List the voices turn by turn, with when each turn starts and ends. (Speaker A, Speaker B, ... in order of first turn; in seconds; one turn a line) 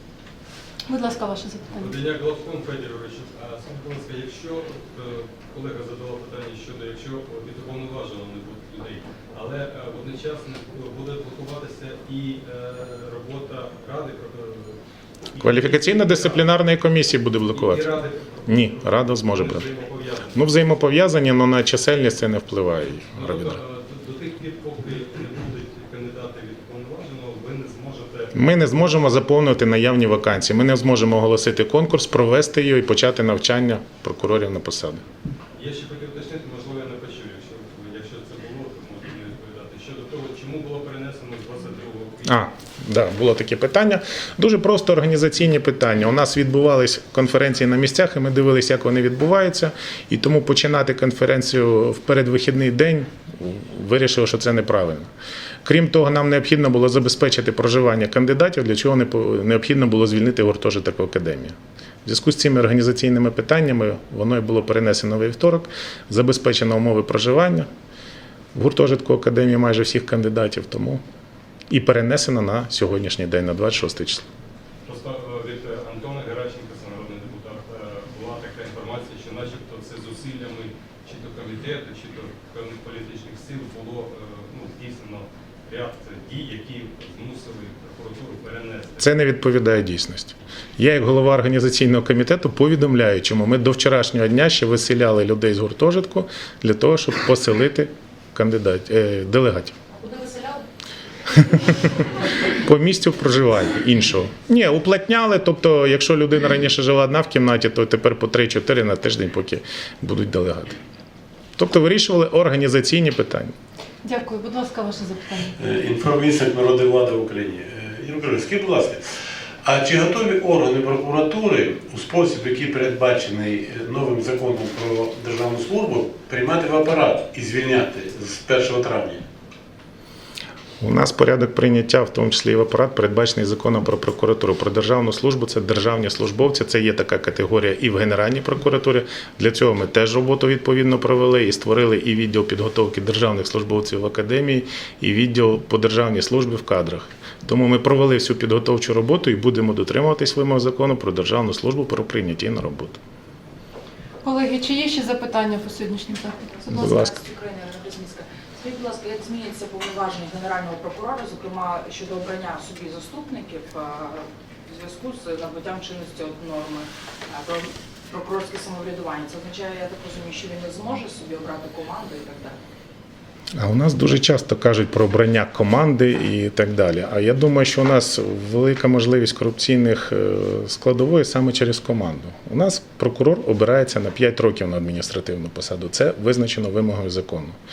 Speaker A: 0.9-2.0
Speaker B: 1.7-14.8
Speaker B: 15.3-16.6
Speaker C: 15.4-17.9
Speaker B: 17.5-20.5
Speaker C: 18.5-19.7
Speaker C: 20.3-23.6
Speaker B: 23.1-29.0
Speaker C: 28.3-35.0
Speaker B: 35.6-42.5
Speaker C: 42.2-55.1
Speaker C: 55.6-67.7
Speaker C: 68.5-71.0
Speaker C: 71.7-74.3
Speaker B: 74.8-89.1
Speaker C: 89.0-99.8
Speaker D: 100.0-100.6
Speaker C: 102.5-110.8
Speaker C: 111.6-113.5
Speaker A: 114.0-115.5
Speaker E: 115.6-119.0
Speaker E: 119.6-129.2
Speaker C: 130.8-153.0
Speaker A: 154.2-157.0
Speaker C: 156.7-157.1
Speaker D: 156.8-172.6
Speaker C: 173.6-187.6